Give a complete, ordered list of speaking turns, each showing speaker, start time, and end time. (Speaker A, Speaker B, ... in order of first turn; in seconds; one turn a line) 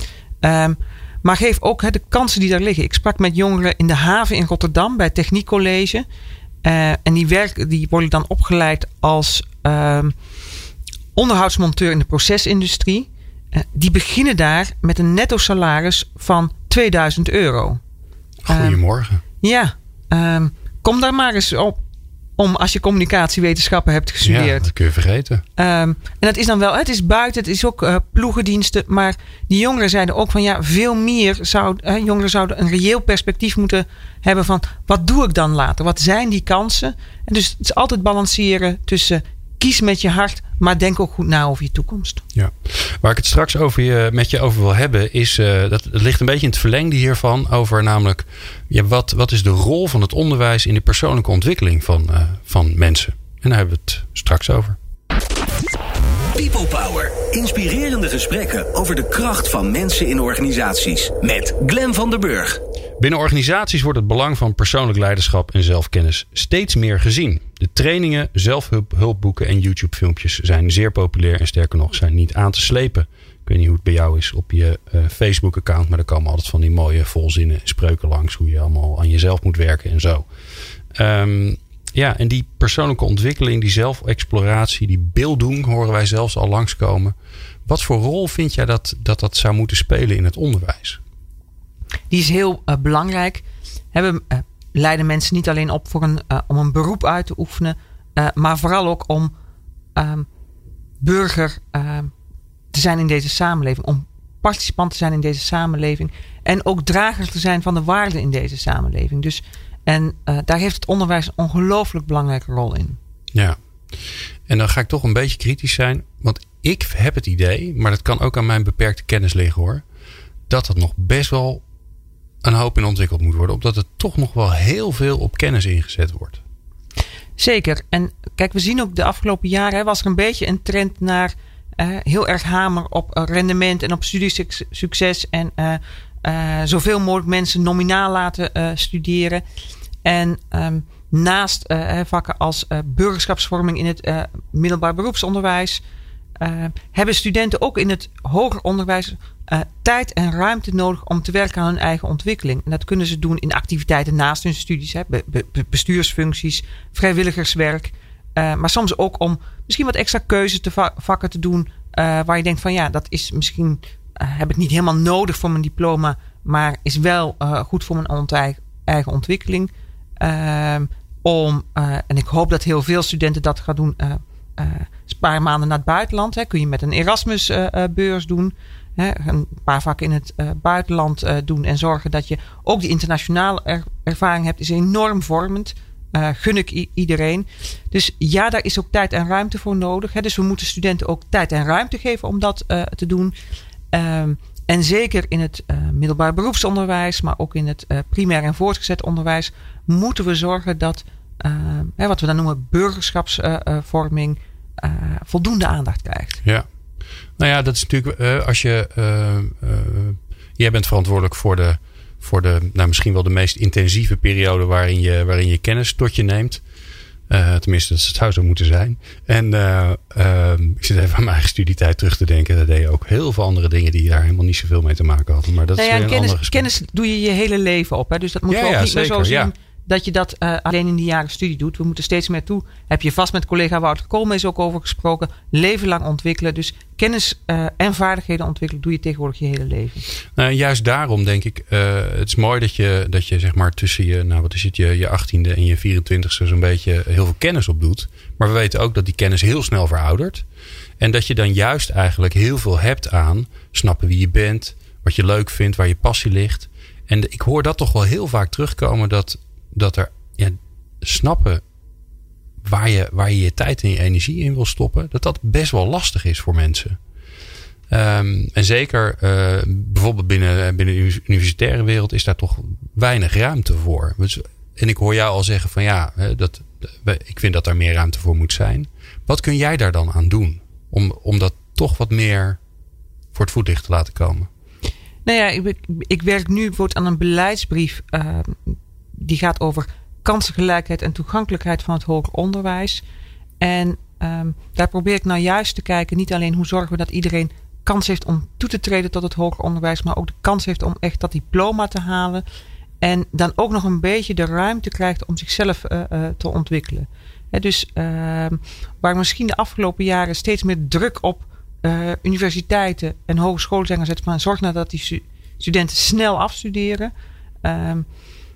Speaker A: 0.4-6.0
Speaker A: 6.6-10.1
Speaker A: 11.1-17.8
Speaker B: 18.4-19.2
Speaker A: 18.5-18.8
Speaker A: 19.4-21.8
Speaker A: 22.4-24.7
Speaker B: 24.2-25.4
Speaker A: 25.6-42.2
Speaker B: 42.3-54.8
Speaker C: 56.3-62.6
Speaker B: 63.0-80.3
Speaker B: 80.9-87.1
Speaker B: 87.7-91.0
Speaker A: 92.1-99.3
Speaker A: 99.9-100.3
Speaker A: 101.0-102.1
Speaker A: 102.7-113.0
Speaker B: 114.5-119.8
Speaker B: 120.5-121.6
Speaker B: 122.4-126.4
Speaker A: 127.4-139.4
Speaker A: 140.0-145.8
Speaker A: 146.4-193.3
Speaker A: 193.9-206.4
Speaker B: 207.4-216.6
Speaker B: 217.3-226.7
Speaker A: 225.7-240.0
Speaker B: 228.5-229.5
Speaker B: 240.3-250.4
Speaker B: 251.0-261.6
Speaker B: 262.6-267.0
Speaker B: 267.9-282.6
Speaker B: 283.3-284.5
Speaker A: 285.2-293.0
Speaker A: 293.6-302.4
Speaker A: 303.0-317.1
Speaker A: 317.6-318.1